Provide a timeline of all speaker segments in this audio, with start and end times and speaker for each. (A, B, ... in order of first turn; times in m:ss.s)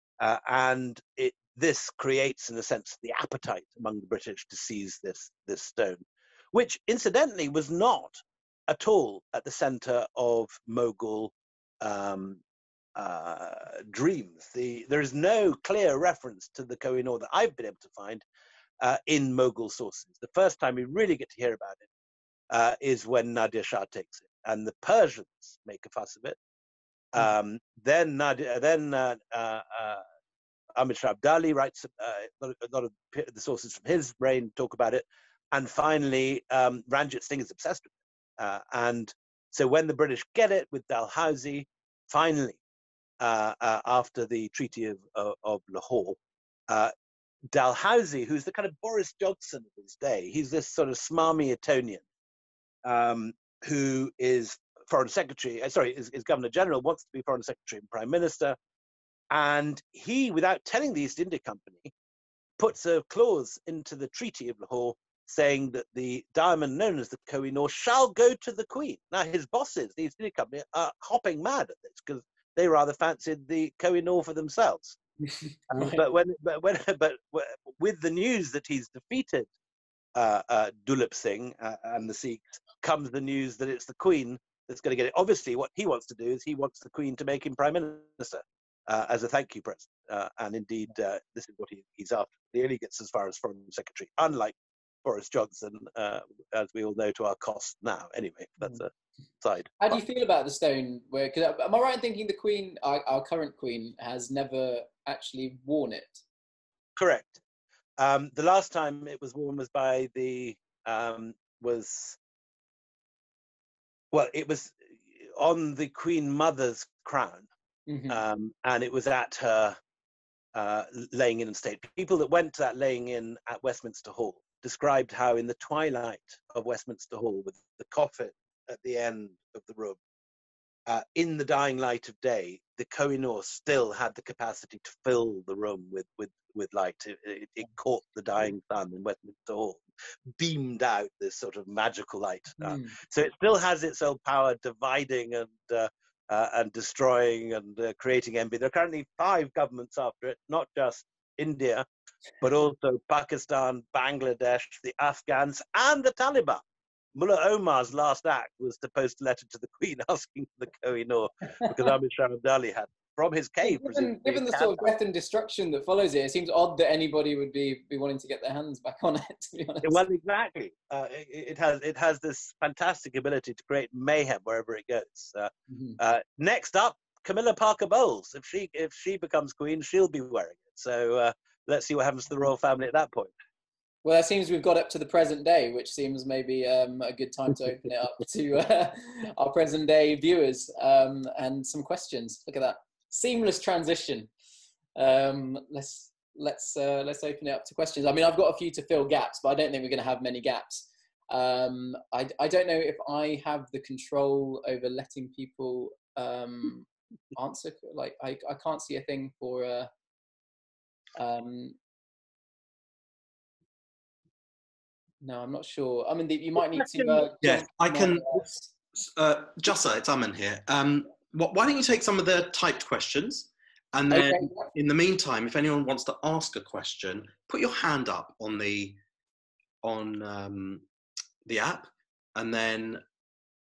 0:00.2-0:12.4 A
0:13.0-0:18.2 A
0:18.8-0:21.8 A
0:22.5-0:26.4 A
0:27.1-0:30.0 A
0:30.7-0:42.6 A
0:43.2-0:46.2 A
0:47.5-0:52.0 A
0:52.8-0:58.6 A
0:59.3-1:01.9 A
1:02.6-1:15.0 A
1:15.7-1:16.0 B
1:15.7-1:19.5 A
1:20.1-1:38.9 A
1:39.4-1:40.0 A
1:39.8-1:46.2 B
1:47.0-1:47.4 A
1:48.0-1:52.2 A
1:54.1-1:57.5 A
1:57.9-1:58.2 B
1:58.1-1:59.8 A
2:00.5-2:10.0 A
2:10.9-2:19.8 A
2:20.3-2:31.8 A
2:22.6-2:23.0 B
2:32.4-2:36.6 A
2:37.1-2:44.9 A
2:43.6-2:50.0 B
2:49.8-3:03.3 A
2:55.7-2:56.0 B
3:04.0-3:14.3 B
3:15.0-3:29.9 B
3:31.2-3:31.8 B
3:35.2-3:38.5 B
3:37.4-3:49.0 C
3:44.1-3:44.6 B
3:49.8-3:50.8 C
3:51.4-3:53.0 C